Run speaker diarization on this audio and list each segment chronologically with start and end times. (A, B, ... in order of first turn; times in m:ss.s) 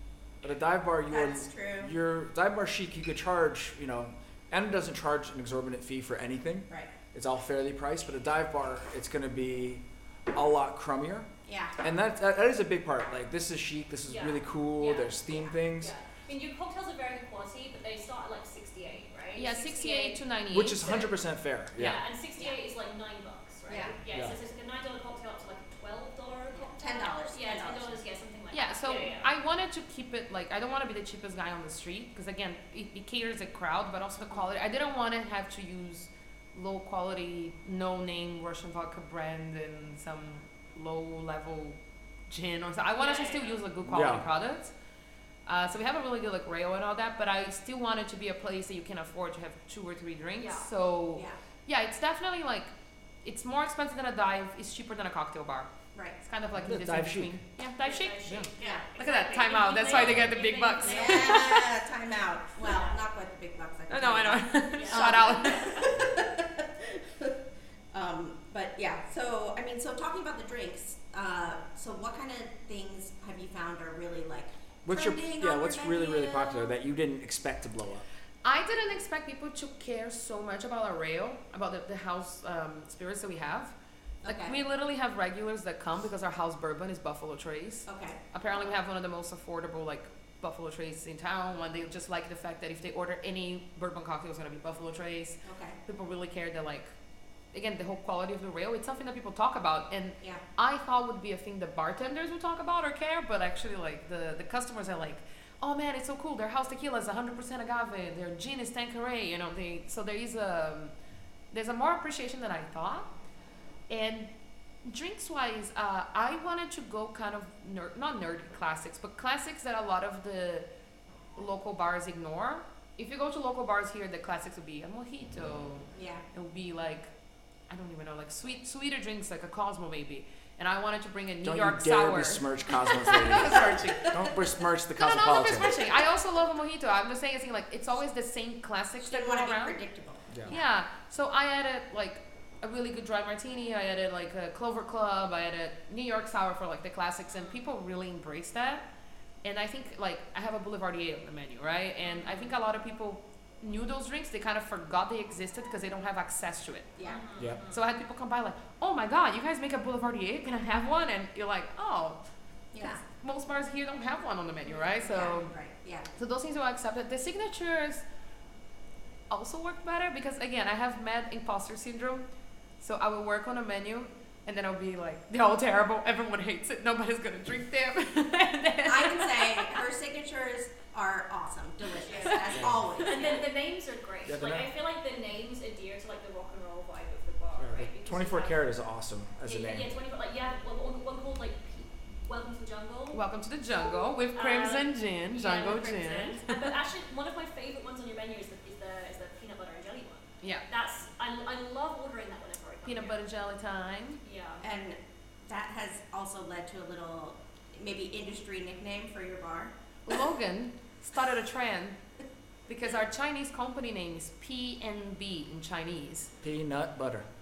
0:00.4-0:11.3 A
0:01.1-0:01.9 B
0:11.5-0:11.8 B
0:11.8-0:15.9 A
0:14.1-0:15.2 C
0:15.7-0:20.2 C
0:19.4-0:21.1 D
0:20.5-0:22.0 A
0:21.8-0:29.3 C
0:23.7-0:24.0 B
0:24.1-0:24.4 A
0:26.5-0:28.0 B
0:28.5-0:44.7 D
0:43.0-0:43.6 C
0:43.8-0:44.2 A
0:45.5-0:52.7 D
0:50.4-0:50.7 C
0:53.2-1:01.7 D
0:56.6-0:57.4 A
0:57.8-1:01.6 C
0:58.6-0:58.9 B
1:00.8-1:07.4 B
1:02.6-1:03.0 C
1:03.9-1:05.9 D
1:04.7-1:06.0 C
1:07.9-1:16.7 B
1:14.8-1:18.0 A
1:18.4-1:36.9 D
1:24.2-1:24.6 B
1:27.9-1:28.2 B
1:35.4-1:35.8 B
1:37.5-1:50.9 D
1:51.5-1:53.1 D
1:53.9-1:54.3 D
1:54.8-2:00.7 D
2:01.4-2:07.1 D
2:05.9-2:06.2 B
2:07.7-2:14.2 D
2:11.4-2:15.7 A
2:13.4-2:14.2 B
2:15.0-2:19.8 D
2:19.0-2:20.7 B
2:20.5-2:28.8 D
2:27.3-2:27.6 C
2:29.4-2:36.9 D
2:32.0-2:32.6 C
2:37.0-2:37.2 B
2:37.0-2:37.8 C
2:37.7-2:42.2 D
2:42.7-2:43.0 B
2:42.8-2:45.5 D
2:45.0-2:46.1 B
2:46.2-2:48.0 D
2:49.3-2:52.3 D
2:52.8-2:59.8 D
2:58.9-3:03.5 B
3:02.0-3:08.6 C
3:04.3-3:04.7 A
3:07.6-3:09.9 A
3:09.4-3:13.2 C
3:13.1-3:16.7 D
3:13.8-3:23.2 C
3:22.8-3:24.2 D
3:24.2-3:24.6 C
3:24.6-3:29.7 B
3:30.1-3:32.0 D
3:32.7-3:36.3 D
3:36.4-3:37.3 A